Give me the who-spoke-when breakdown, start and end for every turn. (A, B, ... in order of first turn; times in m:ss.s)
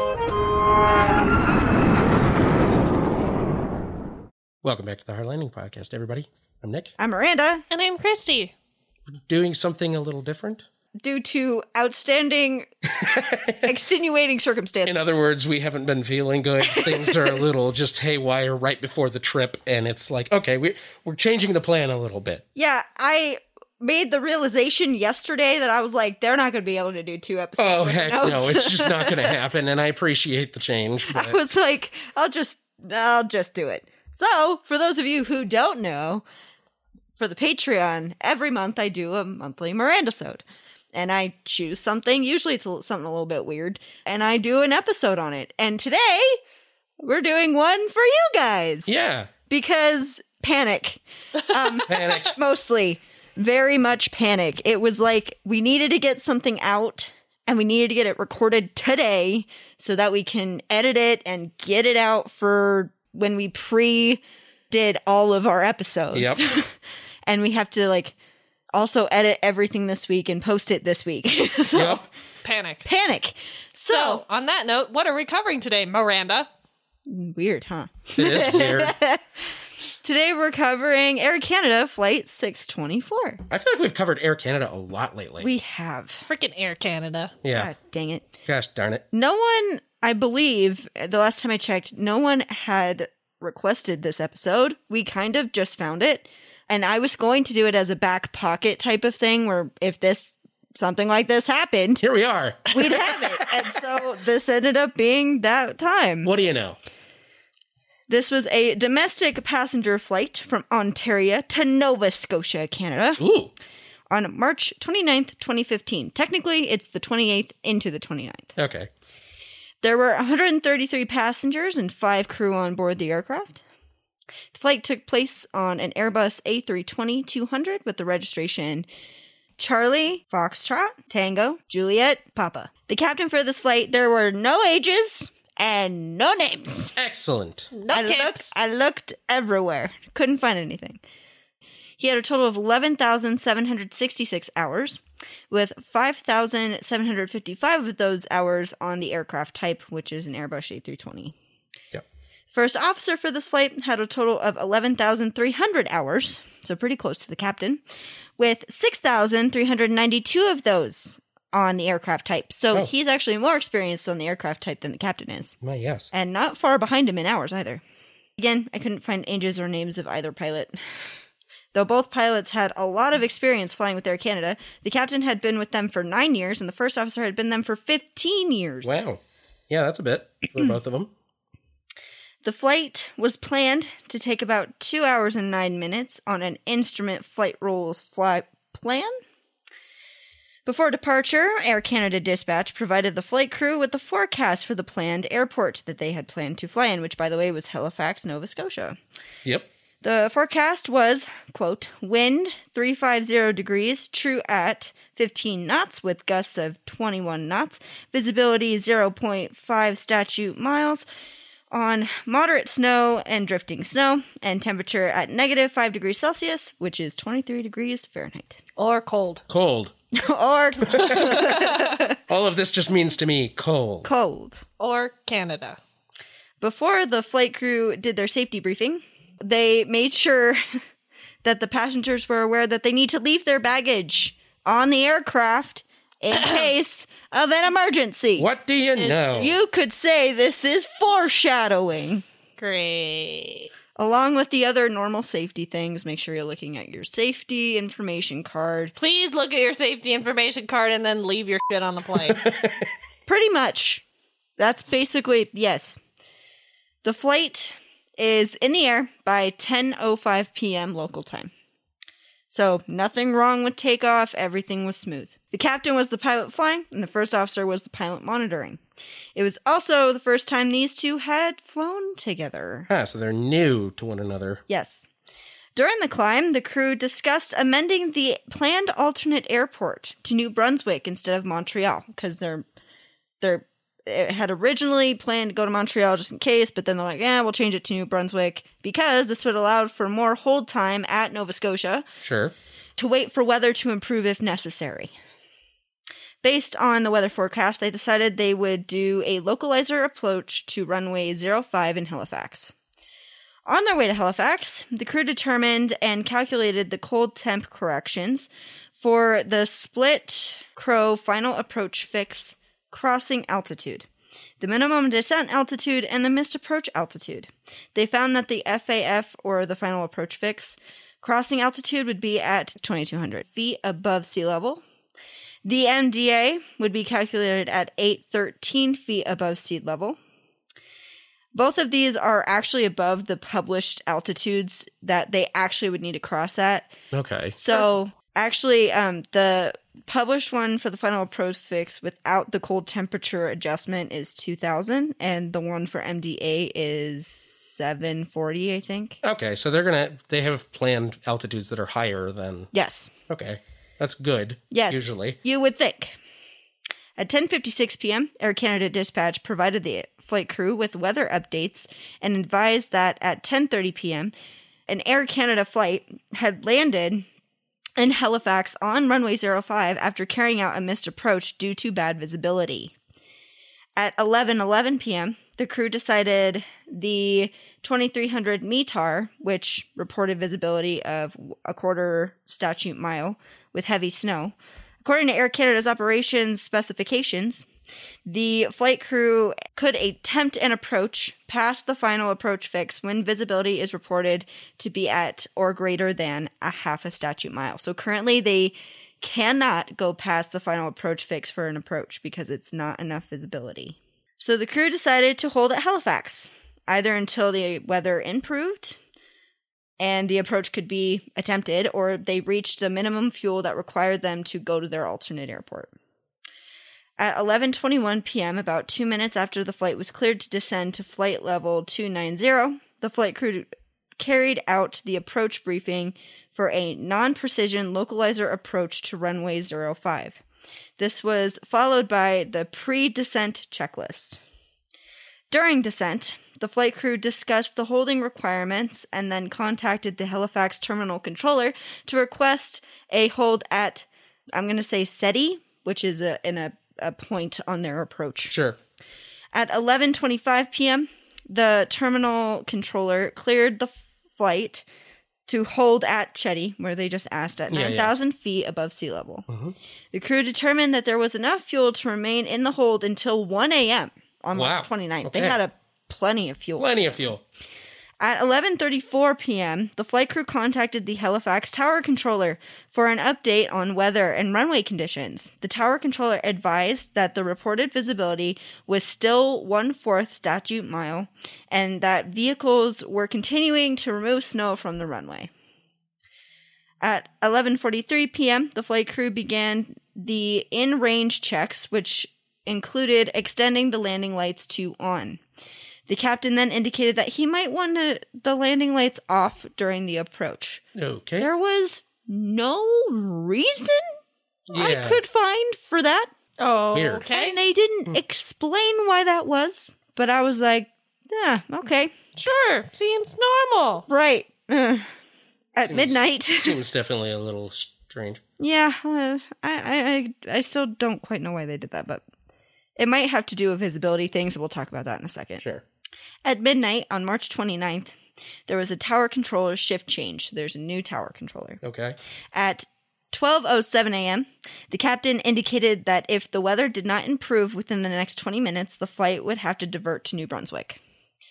0:04.6-0:06.9 A
0:07.0-0:07.6 B
0:07.7-0:08.5 C
0:09.1-0:10.6 A
0:11.0-0:12.7 B
0:13.0-0:13.7 A
0:13.5-0:14.9 B
0:14.8-0:22.4 A
0:16.6-0:17.3 B
0:22.5-0:29.4 B
0:27.6-0:31.4 A
0:31.1-0:36.2 B
0:37.2-0:46.4 B
0:47.0-0:48.9 B
0:48.9-0:49.3 A
0:49.5-1:06.7 B
0:51.8-0:52.3 A
1:06.1-1:06.6 A
1:07.2-1:08.1 B
1:08.7-1:12.1 B
1:11.7-1:12.0 A
1:12.4-1:12.8 C
1:12.8-1:14.2 B
1:13.9-1:16.5 C
1:17.0-1:19.2 B
1:18.1-1:19.0 A
1:20.0-1:23.4 B
1:23.5-1:25.5 A
1:25.4-1:26.2 B
1:26.2-1:27.4 C
1:27.4-1:27.7 A
1:27.5-1:28.2 B
1:28.4-1:29.0 A
1:29.1-1:42.0 B
1:42.0-1:43.7 A
1:42.7-1:46.3 B
1:46.2-1:46.8 A
1:48.1-1:53.2 B
1:53.2-1:53.5 A
1:54.1-1:58.5 B
1:58.6-1:58.9 A
1:59.8-2:03.6 B
2:04.5-2:08.8 B
2:09.6-2:16.9 B
2:17.0-2:17.7 A
2:17.7-2:18.5 C
2:17.9-2:21.0 B
2:22.0-2:31.3 B
2:32.5-2:37.8 B
2:38.4-2:45.5 B
2:45.6-2:46.1 A
2:46.1-2:47.8 B
2:48.4-2:50.7 B
2:51.7-2:59.0 B
2:58.8-3:01.1 A
3:02.4-3:09.1 B
3:10.6-3:19.0 B
3:20.0-3:31.0 B
3:31.7-3:38.6 B
3:38.8-3:39.4 C
3:39.5-3:39.9 A
3:40.1-3:42.2 B
3:40.8-3:41.7 A
3:41.4-3:41.7 C
3:42.3-3:44.1 A
3:44.0-3:44.6 B
3:44.8-3:45.8 C
3:46.6-3:50.6 B
3:51.4-3:58.5 B
3:58.4-3:59.6 A
3:59.0-3:59.4 C
3:59.4-4:02.2 B
4:02.6-4:03.7 C
4:04.0-4:08.9 B
4:09.0-4:12.4 C
4:12.3-4:12.9 A
4:13.3-4:14.0 B
4:14.6-4:16.0 B
4:17.0-4:21.5 B
4:22.5-4:28.8 B
4:29.3-4:32.9 B
4:32.9-4:34.6 A
4:34.7-4:35.1 B
4:35.7-4:42.6 B
4:43.4-4:52.0 B
4:52.2-4:52.5 A
4:53.0-4:55.1 B
4:56.4-5:02.7 B
5:03.6-5:14.1 B
5:14.6-5:24.8 B
5:25.6-5:30.2 B
5:31.5-5:36.9 B
5:37.1-5:37.6 A
5:37.6-5:49.2 B
5:49.2-5:52.7 A
5:52.7-5:53.1 B
5:53.3-5:55.4 A
5:54.7-5:56.2 B
5:57.2-6:04.3 B
6:04.9-6:07.2 B
6:08.0-6:12.9 B
6:14.0-6:27.6 B
6:28.2-6:49.0 B
6:50.0-6:55.9 B
6:57.2-7:03.7 B
7:04.2-7:10.4 B
7:11.0-7:14.4 B
7:15.5-7:28.5 B
7:28.5-7:28.8 A
7:29.5-7:34.8 B
7:35.5-7:39.4 B
7:37.7-7:38.2 A
7:39.5-7:39.7 A
7:40.1-7:47.1 B
7:44.5-7:45.6 A
7:46.8-7:47.4 A
7:48.2-8:05.5 B
8:07.0-8:15.4 B
8:16.1-8:20.8 B
8:20.9-8:21.5 A
8:21.4-8:24.0 B
8:24.7-8:25.2 A
8:24.7-8:26.3 B
8:26.6-8:27.6 C
8:26.9-8:27.3 A
8:27.3-8:32.1 B
8:32.4-8:34.0 C
8:34.1-8:35.1 B
8:35.7-8:36.8 B
8:35.9-8:38.4 A
8:38.6-8:42.2 B
8:43.0-8:45.6 B
8:46.4-8:48.1 B
8:48.7-8:51.8 B
8:51.8-8:52.2 A
8:52.5-9:01.0 B